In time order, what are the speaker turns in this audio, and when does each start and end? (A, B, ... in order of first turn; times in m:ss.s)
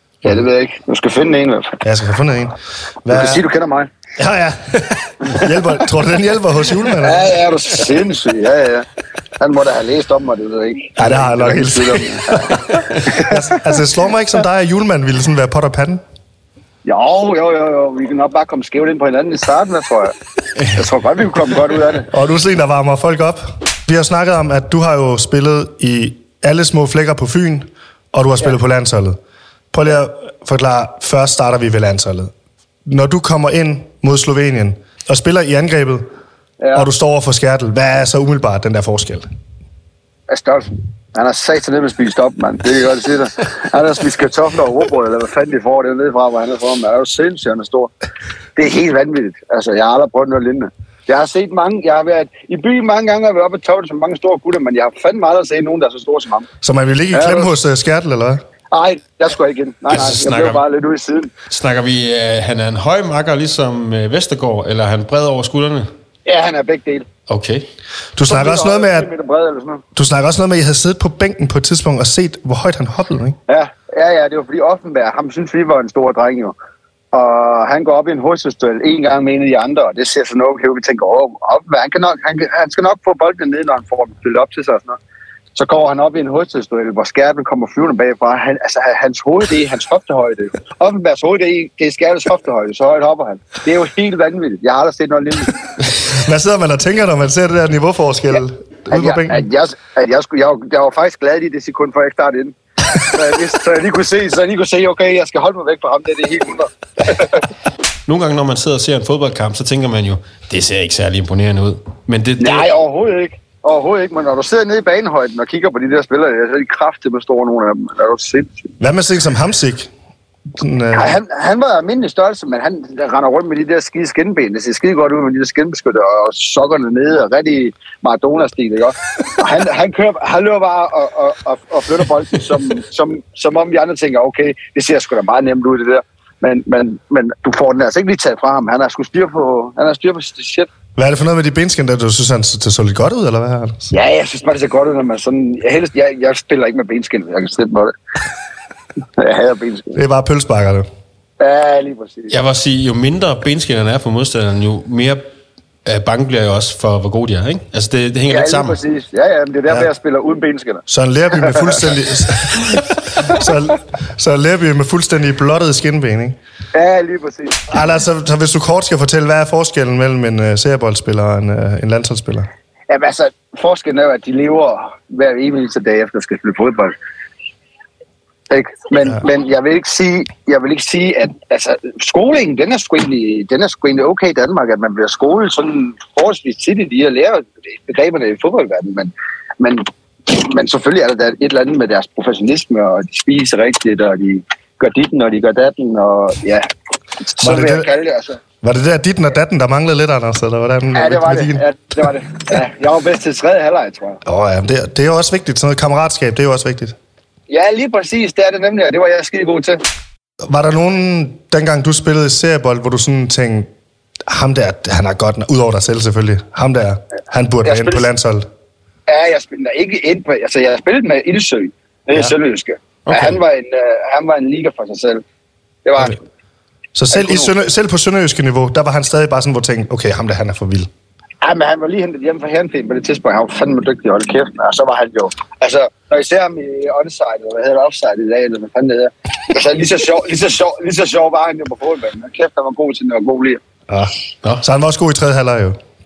0:00.2-0:01.8 A
0:01.8-0:03.4 B
0:03.1-0:03.9 A
0:04.2-0:07.3 B
0:07.0-0:08.9 A
0:09.4-0:12.5 A
0:11.0-0:12.0 B
0:12.5-0:13.0 C
0:13.1-0:13.3 A
0:13.2-0:16.0 B
0:16.8-0:20.1 A
0:20.7-0:22.1 A
0:22.1-0:29.2 B
0:29.7-0:32.3 B
0:32.9-0:36.0 B
0:36.6-0:36.9 A
0:36.7-0:39.2 B
0:40.3-0:47.9 A
0:48.6-0:56.5 A
0:56.6-0:58.4 B
0:57.1-0:57.5 A
0:58.7-1:01.3 A
0:59.9-1:00.6 C
1:01.5-1:05.9 C
1:06.3-1:07.1 A
1:07.3-1:07.7 C
1:08.2-1:09.1 B
1:08.2-1:09.8 A
1:10.0-1:13.4 B
1:13.5-1:16.6 A
1:17.1-1:25.0 A
1:25.6-1:35.5 A
1:36.0-1:39.4 B
1:38.9-1:47.4 A
1:48.1-1:52.7 C
1:52.4-1:58.7 A
1:58.8-1:59.9 B
2:00.6-2:01.2 B
2:00.9-2:20.7 A
2:21.0-2:23.9 B
2:23.9-2:27.9 A
2:29.2-2:30.0 A
2:29.9-2:30.9 B
2:31.4-2:32.4 A
2:32.3-2:35.2 C
2:35.8-2:38.8 C
2:38.3-2:41.8 A
2:40.9-2:46.4 B
2:46.7-2:47.6 A
2:47.7-2:52.5 B
2:52.9-2:56.9 A
2:58.5-3:16.7 A
3:17.2-3:18.4 A
3:17.4-3:17.9 B
3:18.6-3:21.6 B
3:20.9-3:24.2 A
3:24.2-3:26.9 B
3:27.5-3:29.8 A
3:30.4-3:33.7 B
3:34.3-3:38.4 B
3:37.6-3:38.1 A
3:39.1-3:45.2 A
3:43.1-3:43.4 C
3:45.8-3:46.2 A
3:46.9-3:50.9 B
3:47.1-3:47.5 A
3:51.4-4:03.6 A
4:03.9-4:05.8 B